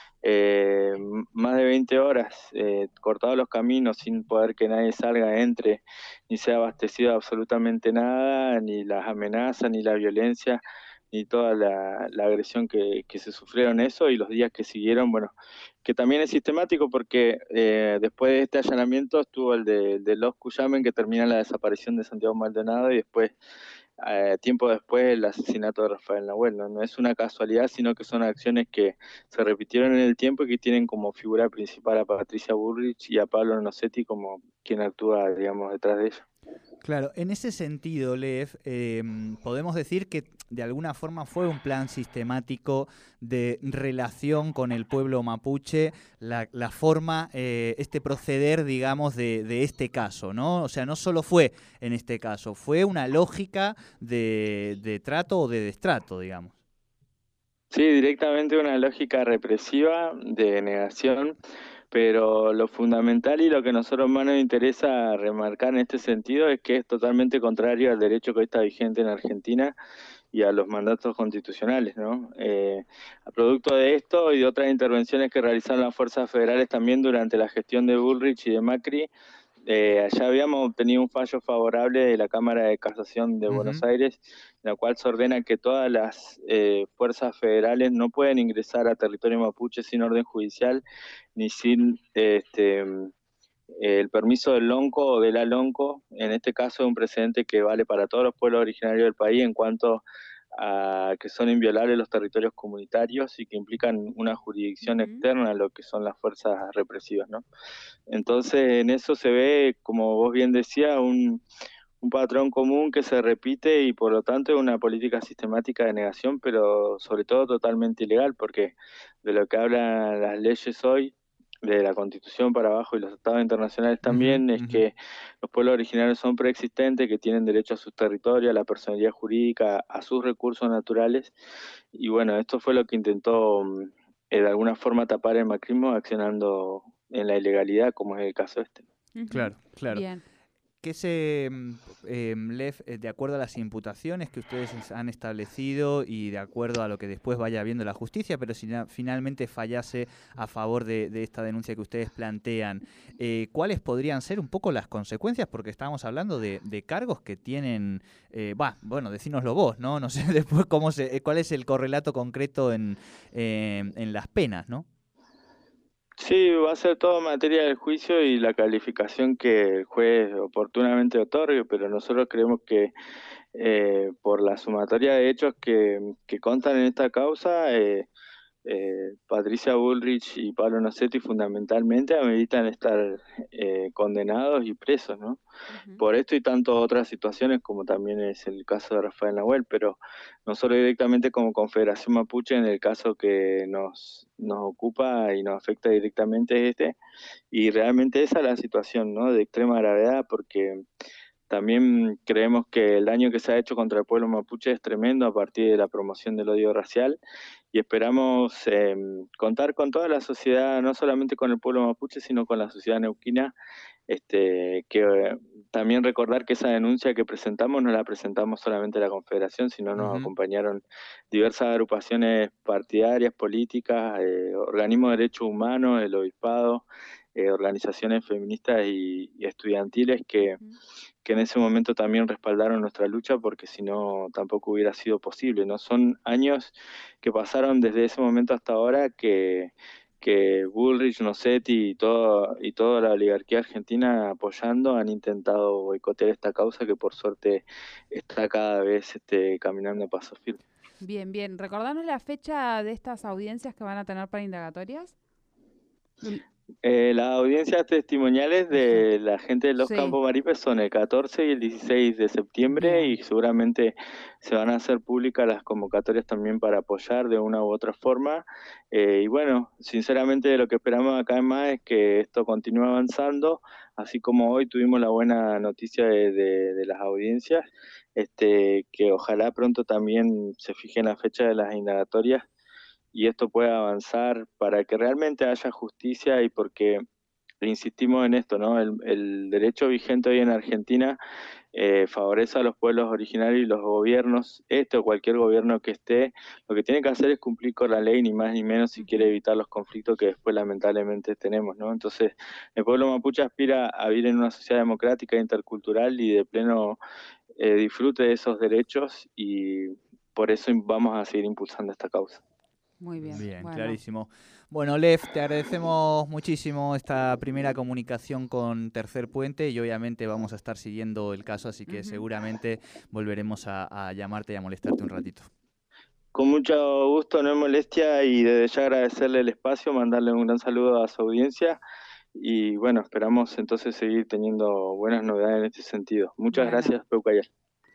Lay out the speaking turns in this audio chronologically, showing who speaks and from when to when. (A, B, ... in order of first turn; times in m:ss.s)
0:00.2-0:10.6 A
0:11.1-0:15.3 A
0:15.8-0:23.3 A
0:24.0-0:36.2 A
0:36.8-0:56.5 B
0:57.7-1:01.3 A
1:01.9-1:09.7 A
1:10.3-1:19.1 A
1:19.6-1:30.8 A
1:23.5-1:23.8 B
1:31.4-1:33.1 A
1:33.8-1:40.0 A
1:40.5-1:47.4 A
1:44.8-1:45.2 C
1:48.1-1:51.4 A
1:52.0-2:11.3 A
2:04.1-2:04.8 B
2:11.9-2:18.8 A
2:19.1-2:20.2 C
2:19.3-2:20.0 B
2:20.8-2:44.8 B
2:46.2-2:52.9 A
2:53.5-2:58.1 A
2:58.6-3:05.4 A
3:05.7-3:06.0 C
3:06.0-3:17.0 A
3:17.5-3:20.8 A
3:21.5-3:27.2 A
3:27.7-3:33.5 A
3:34.1-3:46.8 A
3:39.9-3:40.3 B
3:47.3-3:50.6 A
3:50.4-3:50.7 C
3:51.2-4:10.6 A
4:11.0-4:15.1 C
4:16.8-4:42.4 A
4:18.7-4:19.0 C
4:19.8-4:20.2 C
4:22.7-4:23.1 C
4:43.1-4:47.0 A
4:47.6-4:51.2 A
4:51.7-5:07.0 A
4:59.0-4:59.3 C
5:07.6-5:12.4 A
5:13.0-5:14.0 C
5:13.2-5:25.5 B
5:21.9-5:22.2 C
5:26.3-5:31.8 A
5:32.3-5:37.4 A
5:36.5-5:37.0 C